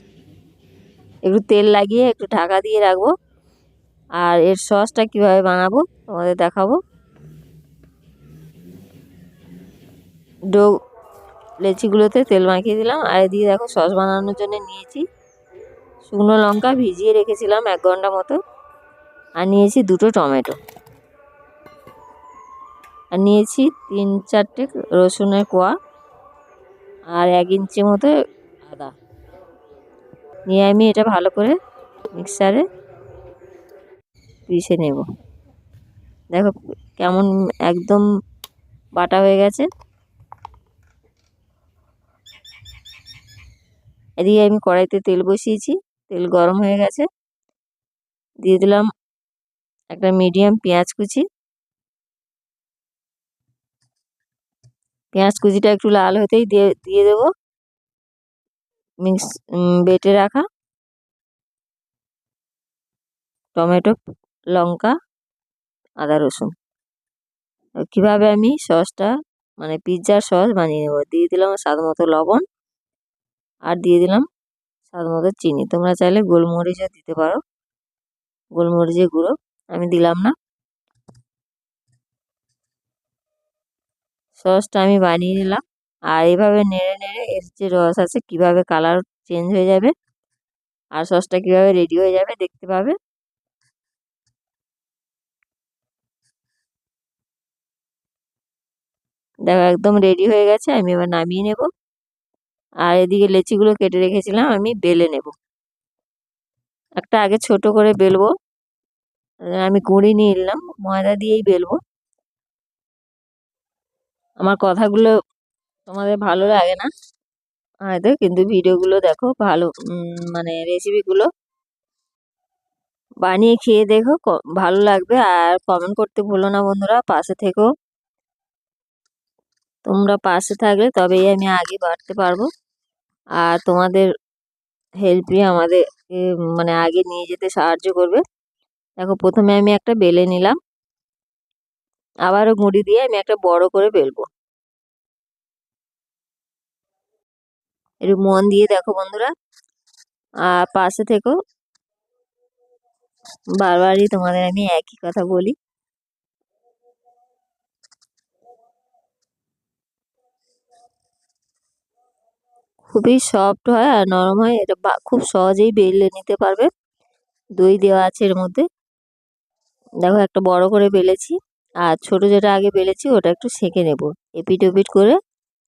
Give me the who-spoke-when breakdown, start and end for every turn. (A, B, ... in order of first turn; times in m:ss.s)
0:01.3-0:03.1 A
0:04.2-0:06.8 A
0:11.6-0:15.0 A
0:16.0-0:18.4 A
0:19.4-0:20.6 A
0:23.1-0:25.7 A
0:27.1-0:28.1 A
0:28.6-0:28.9 A
0:30.5-0:31.6 A
0:32.1-0:32.6 A
0:34.5-0:35.0 A
0:36.3-0:38.0 A
0:39.0-0:39.7 A
0:44.2-0:47.1 A
0:48.4-0:48.8 A
0:49.9-0:51.2 A
0:55.1-0:57.3 A
0:59.0-1:00.4 A
1:03.5-1:04.0 A
1:04.5-1:05.0 A
1:06.0-1:06.5 A
1:07.9-1:12.4 A
1:13.7-1:14.2 A
1:14.9-1:17.4 A
1:18.6-1:20.3 A
1:24.4-1:29.9 A
1:31.0-1:33.0 A
1:39.5-1:41.7 A
1:42.8-1:45.3 A
1:47.0-1:48.3 A
1:49.5-1:51.8 A
1:54.4-1:55.1 A
1:55.9-1:56.9 A
1:57.9-2:01.3 A
2:03.2-2:07.7 A
2:09.8-2:12.5 A
2:13.4-2:14.1 A
2:15.0-2:18.2 A
2:19.0-2:20.6 A
2:22.2-2:24.3 A
2:28.0-2:29.3 A
2:30.5-2:31.4 A
2:33.6-2:35.6 A
2:42.9-2:46.7 A
2:47.6-2:48.6 A
2:50.0-2:55.2 A